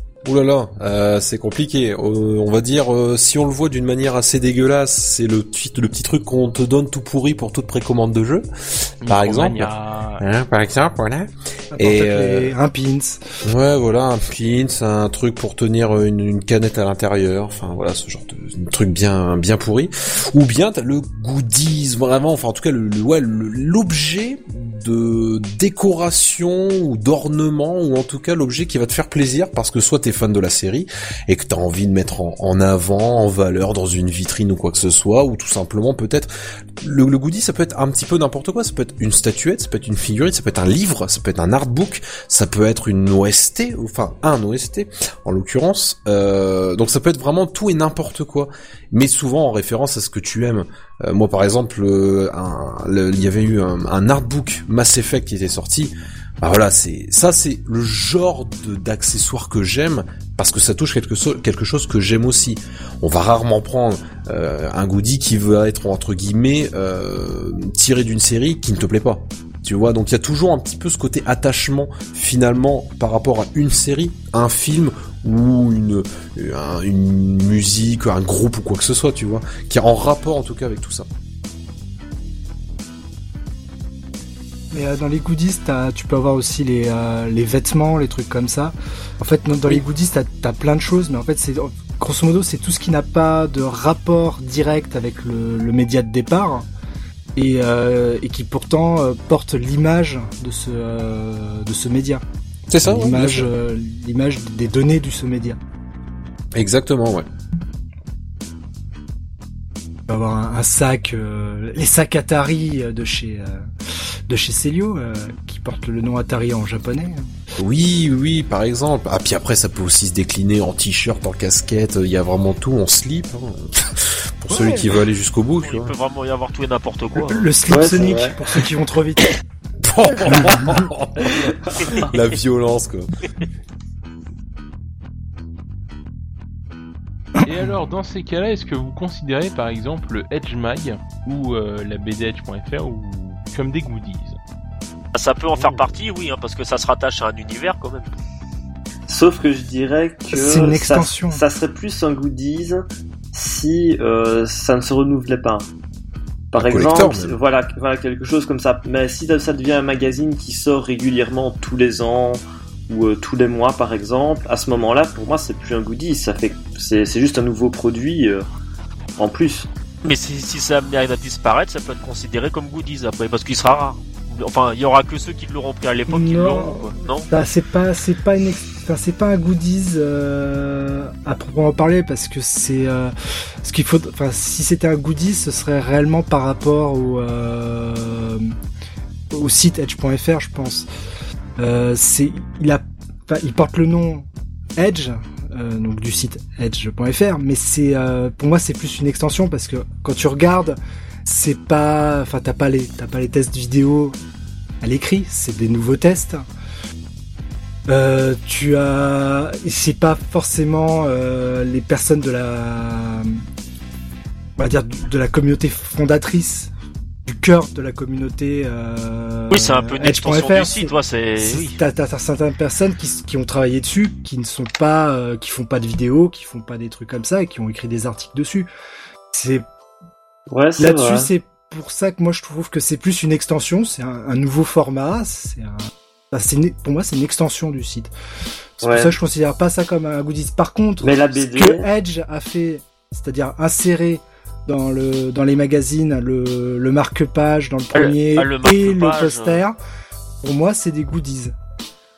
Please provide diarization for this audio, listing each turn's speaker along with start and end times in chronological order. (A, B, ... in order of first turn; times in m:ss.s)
0:00.2-0:12.5 A
0:09.0-0:10.2 B
0:11.7-0:13.2 C
0:13.4-0:36.3 A
0:36.8-1:21.1 A
1:24.7-1:36.7 C
1:37.4-1:42.2 C
1:42.7-1:43.5 A
1:42.8-1:45.6 C
1:46.5-1:47.2 A
1:50.1-1:57.3 C
1:57.6-2:05.9 A
2:04.5-2:04.9 C
2:05.6-2:07.5 D
2:07.2-2:09.4 C
2:07.7-2:08.6 E
2:09.8-2:13.1 A
2:10.2-2:10.9 C
2:11.3-2:12.0 E
2:17.4-2:17.7 C
2:17.4-2:24.4 B
2:25.1-2:28.1 D
2:25.5-2:25.8 B
2:29.1-2:35.6 E
2:30.3-2:31.4 C
2:36.5-2:48.4 E
2:36.5-2:37.3 A
2:49.2-2:49.7 E
2:50.0-2:57.2 D
2:56.1-3:08.6 C
3:09.3-3:10.9 C
3:11.6-3:24.2 C
3:24.8-3:26.4 C
3:27.9-3:33.4 C
3:34.6-3:36.7 C
3:37.2-3:48.7 C
3:39.5-3:41.8 D
3:49.3-3:49.6 C
3:50.5-3:51.3 E
3:50.8-3:58.1 C
3:58.8-4:09.8 C
3:58.8-3:59.1 E
4:01.0-4:01.8 E
4:07.9-4:09.6 D
4:10.4-4:11.5 C